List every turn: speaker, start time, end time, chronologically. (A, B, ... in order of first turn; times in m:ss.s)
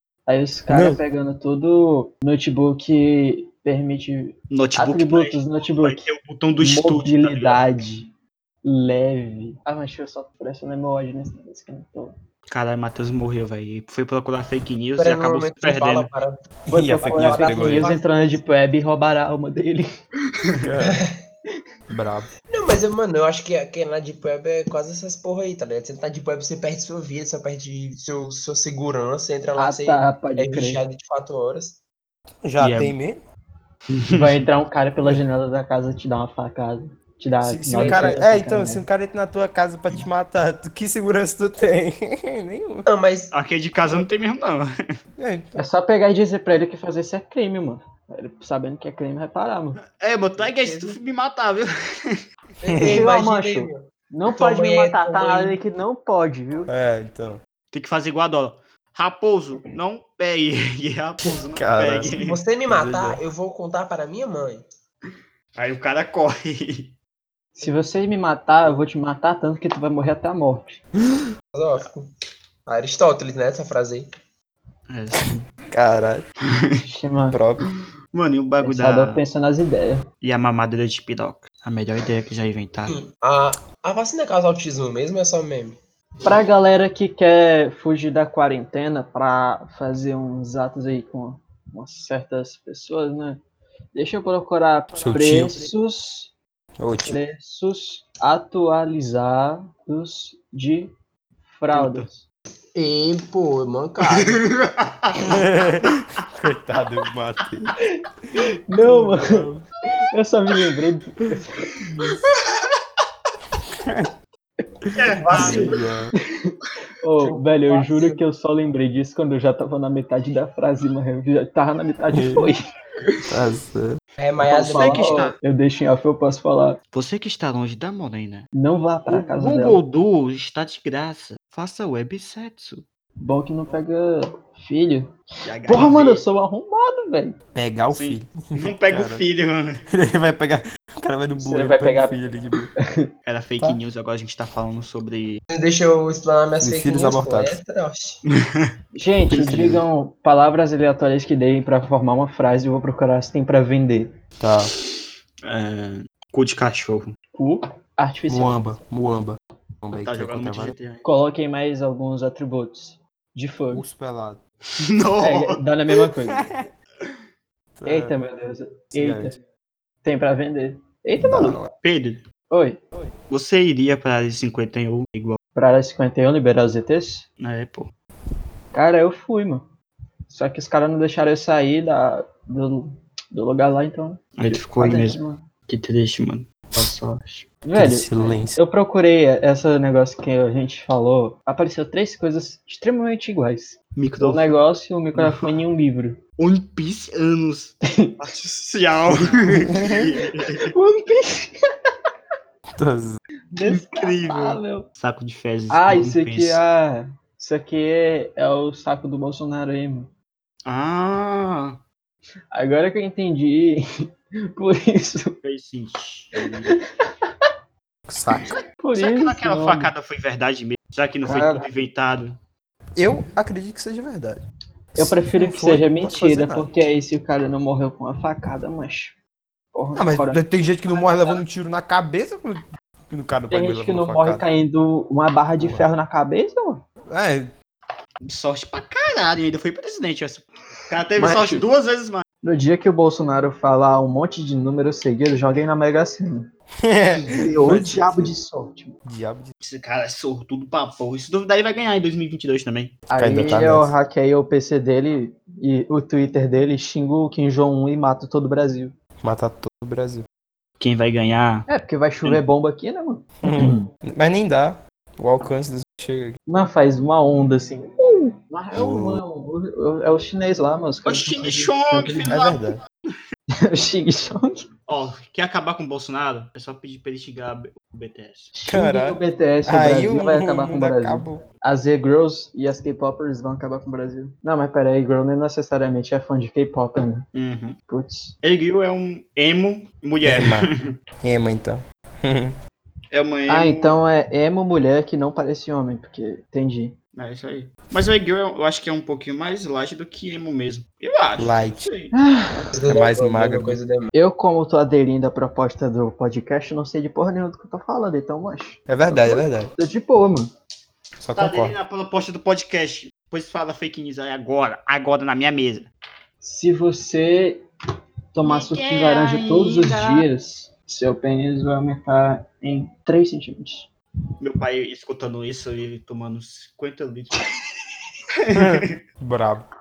0:00.3-0:06.1 A
0:00.7-0:01.0 B
0:04.5-0:07.6 C
0:06.6-0:08.1 A
0:08.6-0:12.2 A
0:12.5-0:16.1 C
0:15.0-0:16.5 D
0:16.7-0:19.9 A
0:16.7-0:17.9 B
0:17.0-0:18.4 D
0:20.6-0:21.0 B
0:20.8-0:21.2 D
0:21.9-0:22.3 B
0:22.5-0:31.8 D
0:29.6-0:30.8 A
0:32.4-0:33.2 B
0:32.6-0:32.9 C
0:33.9-0:34.4 C
0:34.1-0:38.9 A
0:37.4-0:42.9 B
0:37.8-0:38.2 D
0:42.9-0:43.3 D
0:43.3-0:44.7 C
0:45.2-0:45.6 B
0:45.6-0:49.8 A
0:50.0-0:52.2 C
0:50.4-0:51.0 D
0:52.6-0:55.6 D
0:52.7-0:53.0 B
0:52.8-0:56.7 A
0:56.7-0:57.4 B
0:57.7-1:02.4 C
1:01.2-1:02.1 B
1:02.1-1:04.6 D
1:02.7-1:03.2 B
1:05.6-1:07.0 C
1:07.6-1:10.8 A
1:11.5-1:12.1 D
1:12.7-1:14.1 D
1:14.9-1:15.4 C
1:15.7-1:16.3 B
1:16.8-1:17.4 A
1:17.3-1:17.6 B
1:18.1-1:19.2 C
1:18.6-1:20.1 A
1:20.2-1:23.0 C
1:22.9-1:25.8 D
1:26.2-1:33.4 A
1:33.9-1:36.3 A
1:35.0-1:35.7 B
1:36.8-1:37.2 B
1:37.0-1:40.9 A
1:41.4-1:42.2 A
1:41.7-1:42.1 C
1:42.8-1:44.4 D
1:44.0-1:45.3 C
1:45.3-1:47.7 B
1:48.7-1:49.5 A
1:48.8-1:49.7 B
1:50.1-1:51.7 A
1:52.0-1:52.7 C
1:53.8-1:54.1 B
1:54.8-1:56.1 B
1:55.0-1:55.8 C
1:55.3-1:55.7 D
1:56.3-2:02.6 A
1:57.2-1:58.2 D
2:02.1-2:02.5 B
2:03.3-2:04.0 B
2:04.2-2:05.3 D
2:04.4-2:06.8 A
2:04.6-2:05.4 C
2:06.9-2:08.5 C
2:08.6-2:09.8 A
2:09.1-2:12.8 C
2:13.2-2:15.1 A
2:15.4-2:16.2 C
2:15.7-2:17.4 A
2:17.6-2:19.2 B
2:17.9-2:19.8 C
2:19.9-2:22.7 B
2:21.4-2:22.2 A
2:23.3-2:25.4 C
2:25.5-2:28.2 D
2:26.6-2:27.6 B
2:28.5-2:28.7 C
2:28.9-2:34.1 A
2:29.3-2:29.8 B
2:34.4-2:34.7 B
2:35.4-2:37.1 C
2:37.3-2:38.6 A
2:38.3-2:40.8 B
2:40.0-2:41.0 C
2:41.0-2:43.8 A
2:43.7-2:44.4 B
2:44.8-2:45.6 C
2:45.2-2:46.5 A
2:46.3-2:46.7 B
2:47.8-2:48.2 B
2:47.9-2:49.4 A
2:48.9-2:49.4 B
2:50.0-2:51.6 A
2:51.2-2:51.7 B
2:51.8-2:52.2 C
2:52.5-2:52.8 A
2:53.3-2:55.4 C
2:55.6-2:57.3 A
2:57.4-2:57.9 C
2:58.7-2:59.7 A
3:00.3-3:05.4 A
3:04.4-3:07.5 C
3:07.6-3:16.2 A
3:07.8-3:08.6 B
3:14.0-3:14.5 C
3:16.4-3:20.7 C
3:19.5-3:20.1 B
3:20.7-3:21.6 A
3:22.8-3:23.2 B
3:23.5-3:24.9 A
3:23.7-3:26.6 C
3:25.7-3:30.1 A
3:30.7-3:31.8 C
3:32.5-3:33.8 A
3:34.5-3:35.4 A
3:35.4-3:36.8 C
3:38.1-3:38.6 B
3:38.8-3:39.9 A
3:39.0-3:42.4 C
3:41.2-3:41.7 A
3:43.0-3:44.4 B
3:45.0-3:46.7 B
3:45.0-3:49.2 A
3:49.7-3:50.4 A
3:50.0-3:54.4 B
3:50.9-3:51.4 D
3:53.5-3:56.8 A
3:55.6-3:55.9 B
3:57.1-3:57.5 B
3:58.2-4:02.2 C
4:01.2-4:01.7 A
4:02.4-4:06.5 A
4:06.8-4:08.3 B
4:07.3-4:09.0 A
4:09.0-4:09.5 B
4:09.6-4:13.0 C
4:13.1-4:18.9 A
4:13.2-4:13.9 B
4:19.2-4:20.2 B
4:20.8-4:21.7 C
4:21.7-4:23.9 A
4:23.4-4:26.4 B
4:26.5-4:32.3 A
4:28.8-4:29.2 B
4:31.0-4:32.8 C
4:32.3-4:32.8 B
4:33.6-4:34.6 A
4:34.9-4:38.5 C
4:38.6-4:47.3 A
4:38.6-4:41.4 B
4:47.4-4:47.8 C
4:47.9-4:48.4 A
4:48.4-4:50.9 C
4:50.2-4:50.7 B
4:51.2-4:52.6 B
4:53.1-4:54.0 C
4:53.5-4:57.0 A
4:57.2-5:02.1 C
5:01.4-5:01.8 B
5:02.1-5:02.7 A
5:02.7-5:04.1 D
5:02.9-5:03.8 B
5:04.1-5:10.5 A
5:08.9-5:09.7 B
5:11.2-5:11.8 B
5:11.4-5:15.9 C
5:16.4-5:17.6 A
5:18.3-5:23.9 A
5:18.4-5:20.3 C
5:24.4-5:27.4 C
5:28.4-5:28.9 C
5:28.5-5:29.7 B